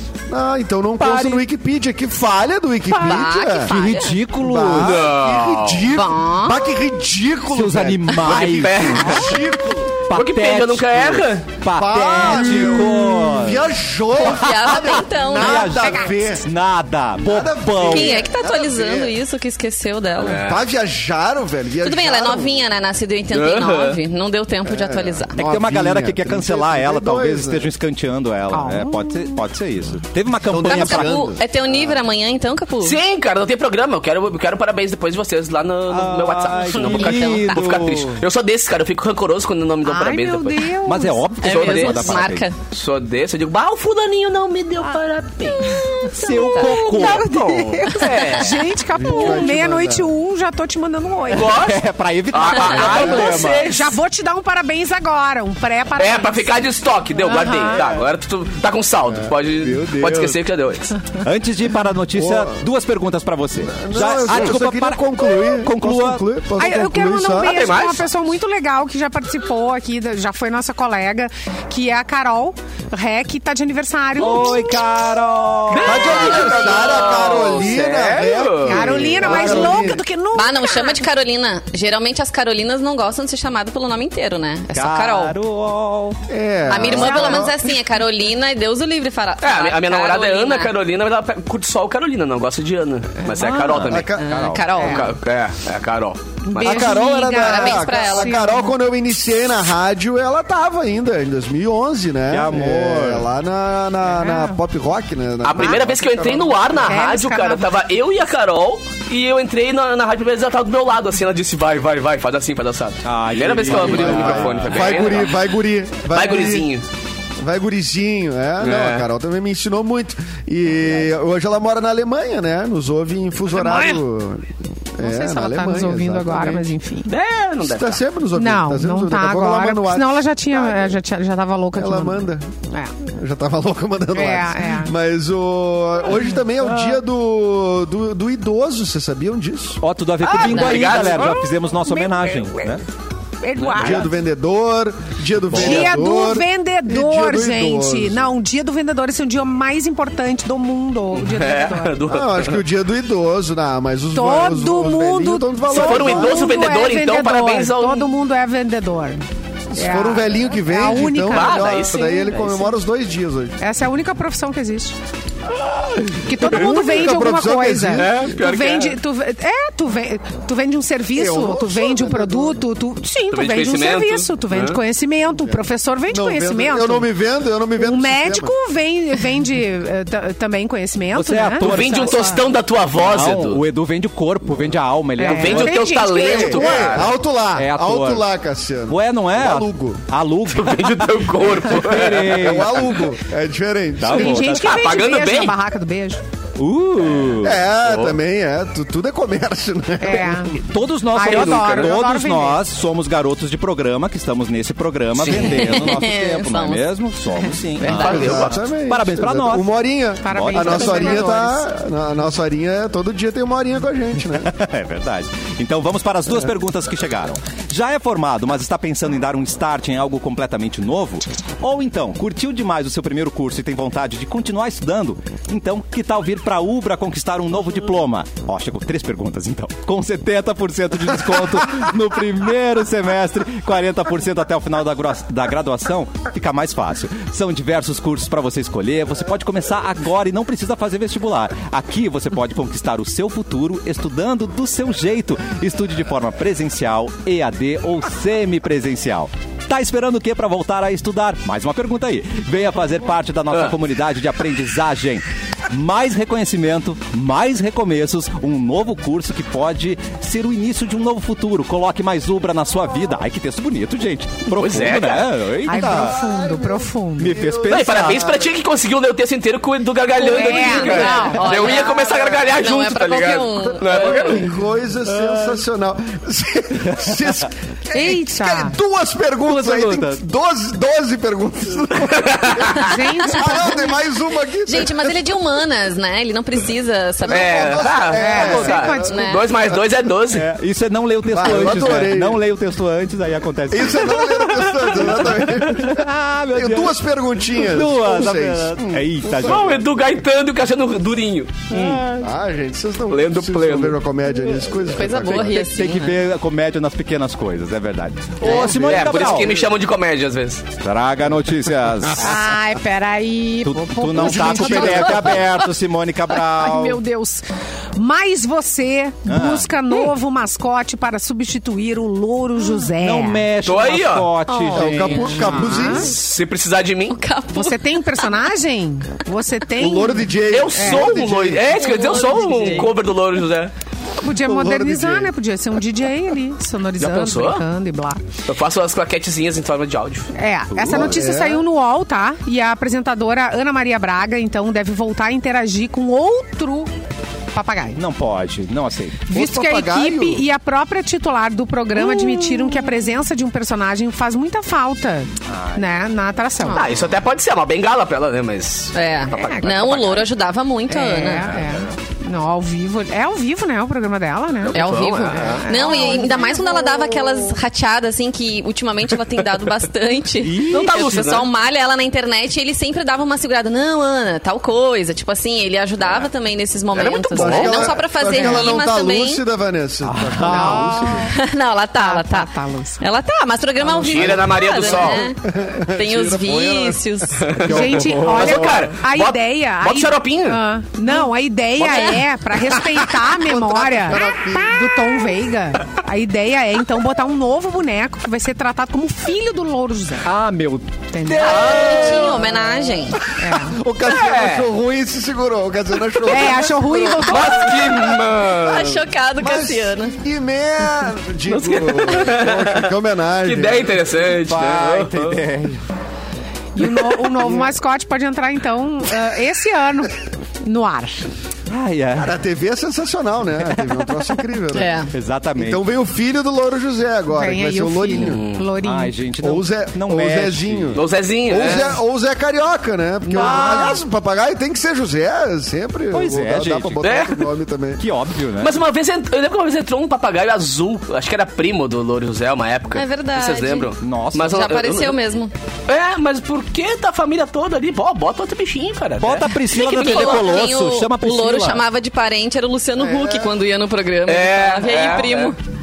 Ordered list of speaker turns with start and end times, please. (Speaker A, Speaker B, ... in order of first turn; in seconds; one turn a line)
Speaker A: 0.3-3.7
Speaker B: 1.0-1.4
Speaker C: 3.0-4.2
Speaker B: 3.6-5.0
Speaker A: 4.3-10.0
Speaker D: 4.8-5.9
Speaker C: 5.9-6.7
Speaker B: 7.5-9.4
Speaker D: 8.2-9.4
Speaker B: 10.1-13.7
Speaker D: 10.1-11.6
Speaker A: 11.7-16.4
Speaker C: 14.2-15.8
Speaker B: 14.2-18.3
Speaker E: 15.8-16.4
Speaker A: 17.2-19.1
Speaker C: 17.8-20.5
Speaker D: 20.2-20.6
Speaker A: 20.4-22.6
Speaker C: 21.8-25.4
Speaker D: 23.3-24.0
Speaker A: 24.6-27.7
Speaker B: 25.4-31.2
Speaker E: 28.5-29.3
Speaker A: 30.5-32.0
Speaker C: 30.6-33.0
Speaker D: 32.8-40.7
Speaker B: 35.9-38.2
Speaker C: 36.9-37.8
Speaker E: 39.9-41.4
Speaker B: 40.9-42.4
Speaker C: 41.4-42.5
Speaker D: 41.4-48.6
Speaker E: 46.0-51.5
Speaker B: 46.1-47.3
Speaker A: 48.9-50.1
Speaker D: 51.3-54.0
Speaker B: 51.5-53.7
Speaker C: 52.5-53.0
Speaker A: 52.9-53.3
Speaker E: 53.5-56.6
Speaker D: 56.0-61.0
Speaker E: 57.2-57.9
Speaker A: 59.1-60.4
Speaker B: 61.2-66.2
Speaker A: 62.1-62.6
Speaker A: 63.7-67.6
Speaker E: 66.6-74.8
Speaker D: 67.4-68.1
Speaker B: 74.2-76.4
Speaker D: 75.7-79.8
Speaker A: 75.8-80.0
Speaker C: 76.1-76.8
Speaker E: 78.6-81.0
Speaker C: 80.3-85.4
Speaker B: 84.7-86.2
Speaker A: 86.3-87.6
Speaker C: 86.7-90.7
Speaker E: 86.9-87.5
Speaker D: 89.4-94.2
Speaker E: 93.2-93.6
Speaker B: 93.4-94.6
Speaker A: 93.8-94.3
Speaker C: 94.2-95.1
Speaker E: 94.8-95.1
Speaker D: 94.8-96.7
Speaker E: 96.4-98.8
Speaker A: 96.6-106.6
Speaker C: 96.8-98.4
Speaker B: 102.3-103.3
Speaker E: 104.1-104.6
Speaker D: 105.4-115.5
Speaker E: 106.6-107.7
Speaker B: 113.0-115.2
Speaker A: 113.6-116.7
Speaker D: 116.1-116.9
Speaker A: 117.4-126.7
Speaker D: 118.6-119.1
Speaker D: 123.6-123.9
Speaker E: 125.0-127.1
Speaker D: 127.1-128.0
Speaker A: 127.7-131.0
Speaker E: 128.3-132.9
Speaker A: 131.8-132.4
Speaker A: 133.0-139.8
Speaker E: 134.1-134.9
Speaker B: 139.8-142.8
Speaker D: 140.2-141.4
Speaker E: 140.2-142.7
Speaker C: 140.4-140.9
Speaker E: 143.4-144.1
Speaker D: 143.6-144.0
Speaker A: 143.8-148.3
Speaker E: 145.5-152.0
Speaker D: 151.1-152.6
Speaker A: 152.1-156.5
Speaker E: 154.1-159.2
Speaker D: 155.7-158.1
Speaker A: 159.7-163.6
Speaker E: 159.8-161.6
Speaker D: 161.3-162.7
Speaker E: 163.6-164.9
Speaker E: 166.2-177.1
Speaker A: 166.4-168.3
Speaker D: 167.9-169.0
Speaker A: 171.1-172.6
Speaker D: 173.3-174.8
Speaker A: 176.1-178.5
Speaker E: 177.8-182.4
Speaker B: 181.1-182.3
Speaker D: 181.6-183.6
Speaker B: 182.9-185.8
Speaker E: 185.2-187.0
Speaker D: 185.2-187.1
Speaker A: 186.1-190.0
Speaker B: 187.6-188.2
Speaker B: 188.9-192.9
Speaker D: 190.5-192.6
Speaker A: 192.1-194.5
Speaker B: 194.0-194.8
Speaker E: 194.1-196.2
Speaker D: 194.6-195.6
Speaker B: 196.6-197.6
Speaker A: 197.4-200.5
Speaker D: 197.8-198.2
Speaker E: 200.0-200.6
Speaker B: 200.5-209.7
Speaker E: 201.1-202.6
Speaker D: 201.2-201.9
Speaker D: 205.2-205.7
Speaker C: 205.3-206.8
Speaker C: 207.8-208.4
Speaker D: 207.9-208.6
Speaker A: 207.9-214.5
Speaker E: 210.2-211.7
Speaker B: 210.3-211.4
Speaker B: 214.3-266.2
Speaker D: 264.5-265.4
Speaker E: 265.6-267.4
Speaker A: 265.7-268.5
Speaker B: 267.2-268.3
Speaker D: 267.6-274.5
Speaker C: 270.2-274.4
Speaker E: 270.2-271.4
Speaker A: 273.7-285.1
Speaker B: 275.1-275.6
Speaker E: 277.9-278.8
Speaker B: 279.4-280.2
Speaker D: 282.2-282.7
Speaker E: 282.7-283.9
Speaker C: 284.6-287.8
Speaker A: 287.2-289.8
Speaker D: 287.3-290.4
Speaker E: 288.1-289.2
Speaker C: 288.4-289.4
Speaker B: 290.3-297.0
Speaker A: 291.3-292.4
Speaker A: 293.7-299.7
Speaker B: 297.5-299.8
Speaker D: 299.4-302.0
Speaker B: 301.7-302.3
Speaker A: 302.1-305.6
Speaker D: 303.1-304.0
Speaker B: 304.7-309.6
Speaker C: 304.9-306.2
Speaker D: 308.4-310.6
Speaker C: 308.5-308.8
Speaker A: 308.5-309.3
Speaker B: 310.8-312.5
Speaker E: 312.2-315.4
Speaker B: 313.6-317.0
Speaker A: 314.2-315.4
Speaker E: 316.5-323.4
Speaker B: 319.3-319.7
Speaker B: 322.9-325.9
Speaker D: 323.6-324.3
Speaker C: 324.5-325.8
Speaker A: 324.7-326.1
Speaker E: 325.3-326.1
Speaker D: 325.8-327.2
Speaker C: 327.1-328.3
Speaker E: 327.5-331.1
Speaker A: 329.8-331.9
Speaker D: 330.5-333.7
Speaker C: 331.7-332.9
Speaker E: 334.2-338.2
Speaker A: 334.4-335.3
Speaker D: 337.0-337.6
Speaker D: 338.4-340.3
Speaker E: 340.3-346.9
Speaker B: 340.7-341.2
Speaker A: 340.8-341.6
Speaker E: 347.5-348.0
Speaker B: 347.9-349.2
Speaker E: 349.3-356.9
Speaker A: 349.3-350.4
Speaker C: 352.1-352.8
Speaker B: 355.5-355.9
Speaker C: 356.6-356.9
Speaker D: 356.7-360.3
Speaker C: 358.9-361.6
Speaker E: 359.3-359.7
Speaker E: 360.9-364.9
Speaker D: 364.6-365.6
Speaker C: 364.7-379.4
Speaker E: 365.4-366.9
Speaker B: 370.4-371.5
Speaker D: 370.7-371.5
Speaker D: 376.9-377.9
Speaker A: 377.3-381.3
Speaker E: 378.3-378.6
Speaker B: 380.0-381.3
Speaker E: 380.4-381.3
Speaker C: 381.3-387.6
Speaker E: 382.0-383.0
Speaker D: 383.9-385.3
Speaker A: 384.0-387.0
Speaker D: 387.4-390.6
Speaker E: 387.6-400.3
Speaker B: 387.7-388.5
Speaker D: 391.8-392.2
Speaker A: 393.5-395.0
Speaker B: 400.2-402.9
Speaker E: 401.1-401.7
Speaker C: 401.4-403.2
Speaker E: 403.3-403.8
Speaker A: 403.7-413.9
Speaker D: 404.0-404.7
Speaker E: 406.2-407.8
Speaker D: 407.2-409.0
Speaker C: 408.5-410.1
Speaker D: 411.5-415.4
Speaker B: 414.4-415.8
Speaker E: 416.7-421.2
Speaker A: 417.4-417.7
Speaker B: 421.7-422.3
Speaker A: 422.1-425.0
Speaker B: 423.6-424.0
Speaker C: 424.7-425.1
Speaker B: 425.1-425.8
Speaker A: 425.6-428.4
Speaker E: 427.3-429.1
Speaker D: 428.1-428.7
Speaker B: 428.8-431.0
Speaker A: 429.4-438.0
Speaker D: 430.9-432.0
Speaker C: 433.3-434.0
Speaker B: 433.4-434.0
Speaker B: 436.1-437.0
Speaker D: 437.0-437.4
Speaker B: 438.0-438.7
Speaker D: 438.6-445.2
Speaker C: 442.9-445.5
Speaker B: 444.0-444.7
Speaker D: 445.9-450.5
Speaker B: 449.2-451.8
Speaker C: 449.6-455.6
Speaker A: 453.0-453.5
Speaker D: 454.2-455.5